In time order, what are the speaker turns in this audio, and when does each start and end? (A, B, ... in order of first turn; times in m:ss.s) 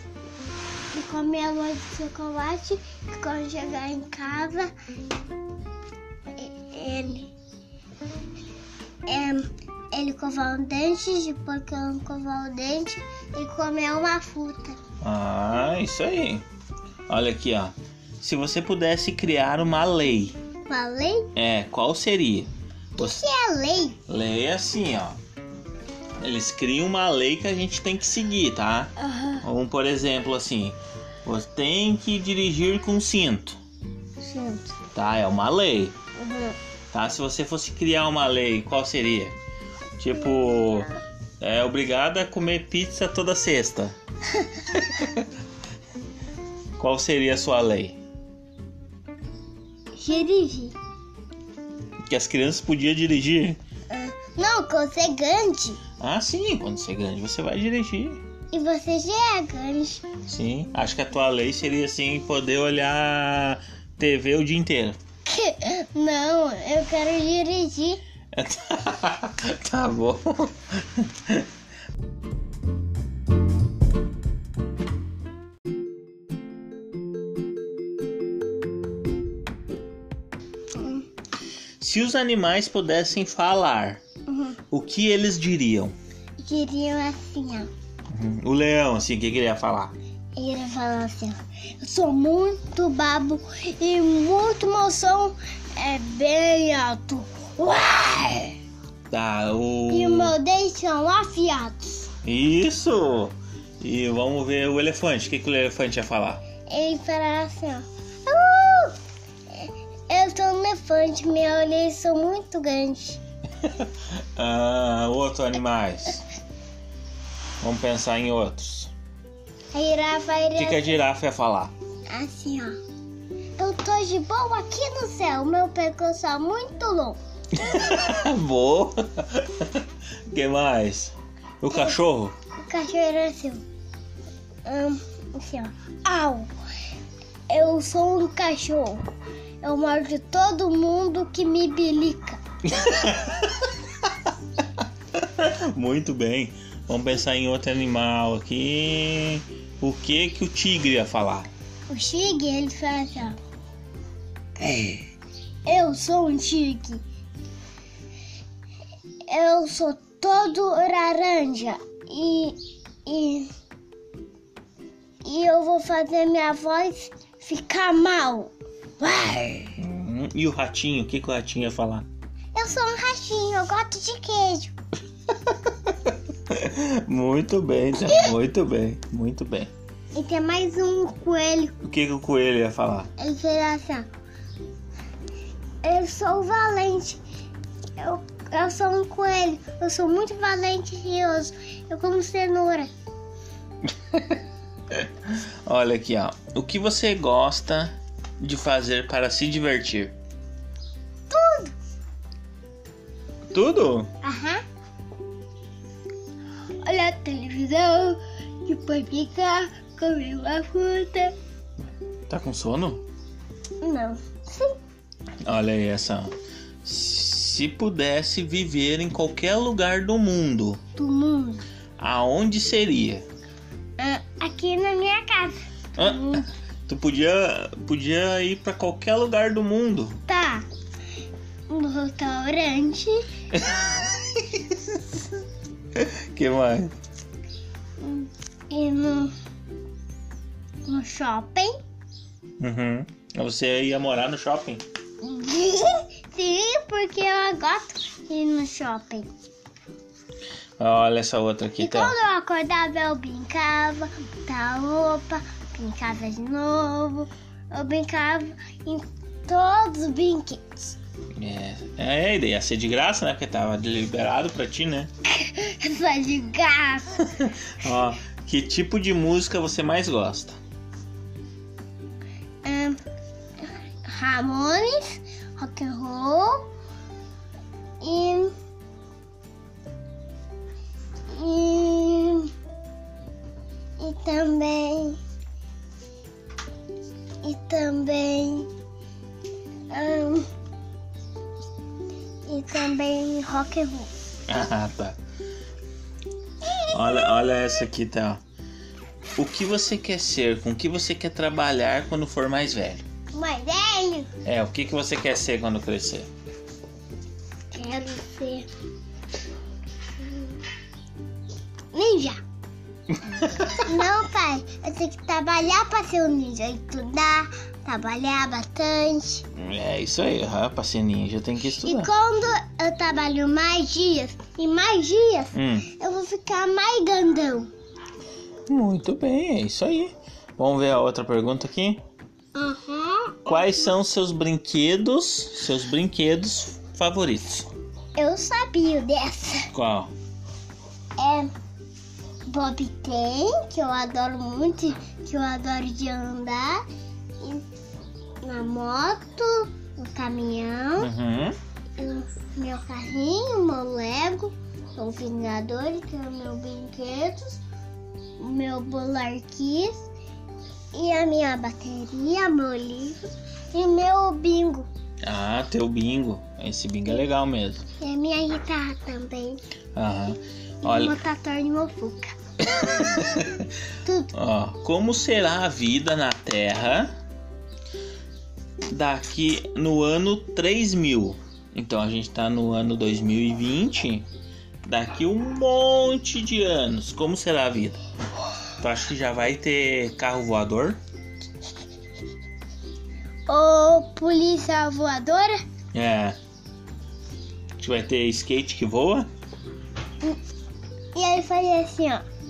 0:00.9-0:04.7 A
0:06.4-0:07.3 A
0:09.1-0:14.8 A
0:15.0-0:16.4 B
0:17.1-0:20.4 B
0:20.7-0:21.3 A
0:21.4-0:23.2 B
0:23.0-0:24.0 A
0:24.1-0:25.2 B
0:26.2-0:33.6 B
0:29.0-0:29.4 A
0:34.2-0:34.7 A
0:34.9-0:36.0 B
0:36.2-0:36.6 A
0:36.9-0:39.4 B
0:40.0-0:44.0 B
0:40.1-0:41.0 A
0:44.7-0:45.3 B
0:46.8-0:48.0 B
0:50.0-0:50.8 A
0:52.1-0:53.6 B
0:53.9-0:55.8 A
0:56.0-0:58.2 B
0:58.5-1:00.1 A
1:00.2-1:05.0 B
1:05.3-1:08.0 A
1:08.3-1:11.5 B
1:20.8-1:21.1 A
1:21.8-1:24.0 B
1:24.3-1:24.6 A
1:24.7-1:26.0 B
1:26.4-1:27.7 A
1:28.1-1:29.9 B
1:30.4-1:38.6 A
1:39.1-1:40.4 B
1:39.9-1:42.1 A
1:42.2-1:46.4 B
1:46.7-1:49.0 A
1:49.5-1:53.2 A
1:53.6-1:56.2 B
1:57.6-1:58.9 B
1:59.7-2:00.9 A
2:00.6-2:01.7 B
2:02.1-2:02.8 A
2:03.6-2:07.2 A
2:07.5-2:12.4 B
2:11.7-2:12.0 A
2:12.6-2:13.6 A
2:14.6-2:16.5 A
2:17.5-2:19.0 A
2:19.6-2:22.4 A
2:22.7-2:23.7 B
2:25.2-2:31.5 B
2:31.9-2:33.4 A
2:34.6-2:35.0 A
2:35.7-2:37.0 A
2:39.3-2:43.5 A
2:45.2-2:49.8 A
2:49.8-2:52.1 B
2:52.6-2:54.7 A
2:55.3-2:59.7 B
2:58.1-2:58.3 A
3:00.2-3:01.7 A
3:01.8-3:03.1 B
3:03.2-3:04.1 A
3:05.8-3:07.2 A
3:08.0-3:12.9 A
3:14.1-3:20.1 B
3:21.3-3:21.7 A
3:23.5-3:24.1 B
3:24.2-3:24.6 A
3:26.8-3:31.4 A
3:32.3-3:33.0 B
3:33.8-3:34.8 A
3:35.4-3:40.8 B
3:41.0-3:41.6 A
3:42.0-3:43.2 B
3:44.0-3:46.5 A
3:46.0-3:50.2 B
3:50.3-3:50.7 A
3:51.7-3:53.2 A
3:53.5-3:55.2 B
3:56.0-3:56.9 B
3:58.0-3:59.3 A
4:00.8-4:01.8 A
4:02.6-4:04.8 B
4:05.2-4:09.3 A
4:10.8-4:12.2 B
4:11.8-4:21.0 A
4:21.4-4:25.1 B
4:25.2-4:27.2 A
4:27.3-4:30.6 B
4:32.6-4:33.0 A
4:33.6-4:36.7 A
4:38.0-4:38.5 A
4:41.3-4:42.5 A
4:44.0-4:45.2 A
4:47.4-4:48.7 A
4:49.9-4:50.5 A
4:52.5-4:54.1 A
4:54.5-4:55.2 B
4:56.6-4:57.4 A
4:56.9-4:58.4 B
4:59.4-5:03.0 B
5:03.3-5:04.3 A
5:04.4-5:06.3 B
5:07.7-5:08.7 A
5:11.9-5:12.4 A
5:13.3-5:13.8 B
5:13.7-5:19.4 A
5:19.5-5:22.1 B
5:21.8-5:27.7 A
5:25.5-5:25.9 B
5:28.7-5:32.0 B
5:32.6-5:33.9 A
5:33.5-5:37.7 B
5:38.2-5:39.7 A
5:39.7-5:40.1 B
5:41.2-5:41.5 A
5:42.5-5:46.8 A
5:47.4-5:47.7 A
5:48.4-5:51.1 A
5:51.0-5:51.6 B
5:52.0-5:57.6 A
5:58.4-6:00.1 A
6:00.9-6:03.2 A
6:03.7-6:04.9 A
6:05.2-6:07.8 B
6:08.0-6:09.6 A
6:10.0-6:11.1 B
6:10.8-6:13.4 A
6:12.7-6:13.7 B
6:14.0-6:14.3 A
6:14.3-6:17.1 B
6:18.9-6:24.2 B
6:24.8-6:28.0 B
6:28.8-6:31.0 B
6:33.5-6:35.6 A
6:35.9-6:36.4 B
6:37.8-6:39.3 B
6:41.1-6:42.2 A